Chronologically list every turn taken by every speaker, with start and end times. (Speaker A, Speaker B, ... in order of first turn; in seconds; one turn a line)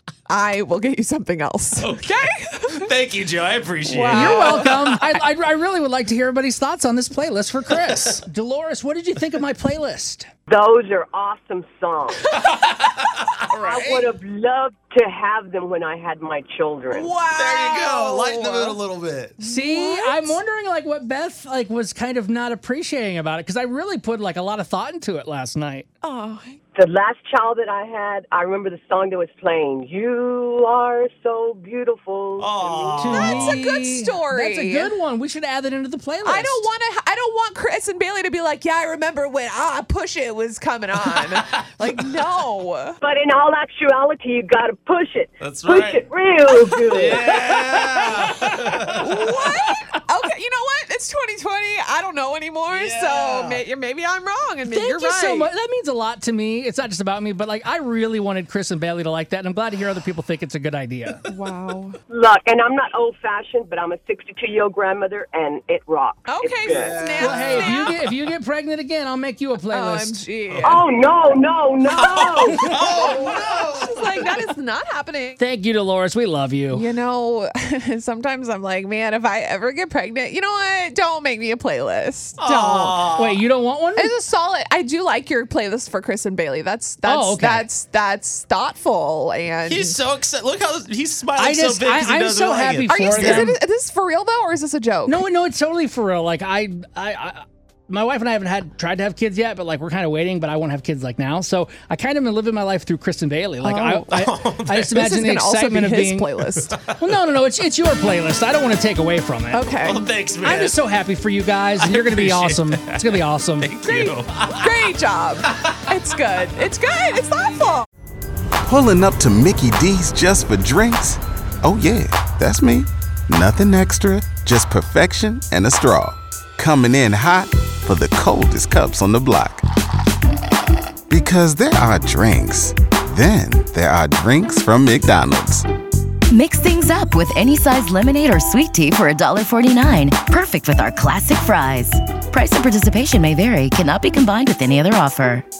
Speaker A: 0.3-2.9
Speaker B: 1.8-5.1
Speaker A: 3.9-4.7
Speaker C: 4.1-10.3
Speaker D: 10.5-12.3
Speaker B: 12.3-12.9
Speaker A: 13.5-14.1
Speaker D: 13.6-17.1
Speaker A: 16.9-18.8
Speaker B: 17.2-19.4
Speaker A: 19.4-20.4
Speaker C: 19.4-25.9
Speaker A: 26.0-26.6
Speaker D: 26.8-33.2
Speaker B: 32.4-33.6
Speaker C: 33.0-36.7
Speaker A: 33.1-34.9
Speaker A: 36.2-43.0
Speaker D: 43.0-47.6
Speaker B: 45.4-46.1
Speaker B: 46.9-49.4
Speaker A: 49.0-55.5
Speaker B: 52.7-53.6
Speaker C: 54.7-61.2
Speaker A: 61.3-62.0
Speaker D: 62.1-67.1
Speaker A: 66.2-68.0
Speaker B: 66.7-67.9
Speaker C: 67.2-70.2
Speaker A: 69.7-70.8
Speaker B: 70.5-70.8
Speaker D: 70.6-73.5
Speaker B: 71.9-74.2
Speaker A: 73.0-75.4
Speaker C: 75.4-76.8
Speaker A: 76.7-83.1
Speaker B: 82.4-83.4
Speaker C: 83.2-84.1
Speaker A: 84.0-90.0
Speaker C: 87.0-87.7
Speaker B: 89.7-93.5
Speaker C: 91.4-93.5
Speaker A: 92.9-95.2
Speaker C: 95.1-106.3
Speaker A: 103.6-104.2
Speaker B: 104.1-105.0
Speaker A: 105.0-106.8
Speaker C: 107.0-109.7
Speaker A: 109.5-110.0
Speaker B: 109.8-110.8
Speaker C: 110.4-113.7
Speaker B: 111.8-114.7
Speaker A: 113.8-117.9
Speaker B: 115.5-115.8
Speaker E: 118.7-129.7
Speaker E: 131.1-135.7
Speaker F: 136.3-145.4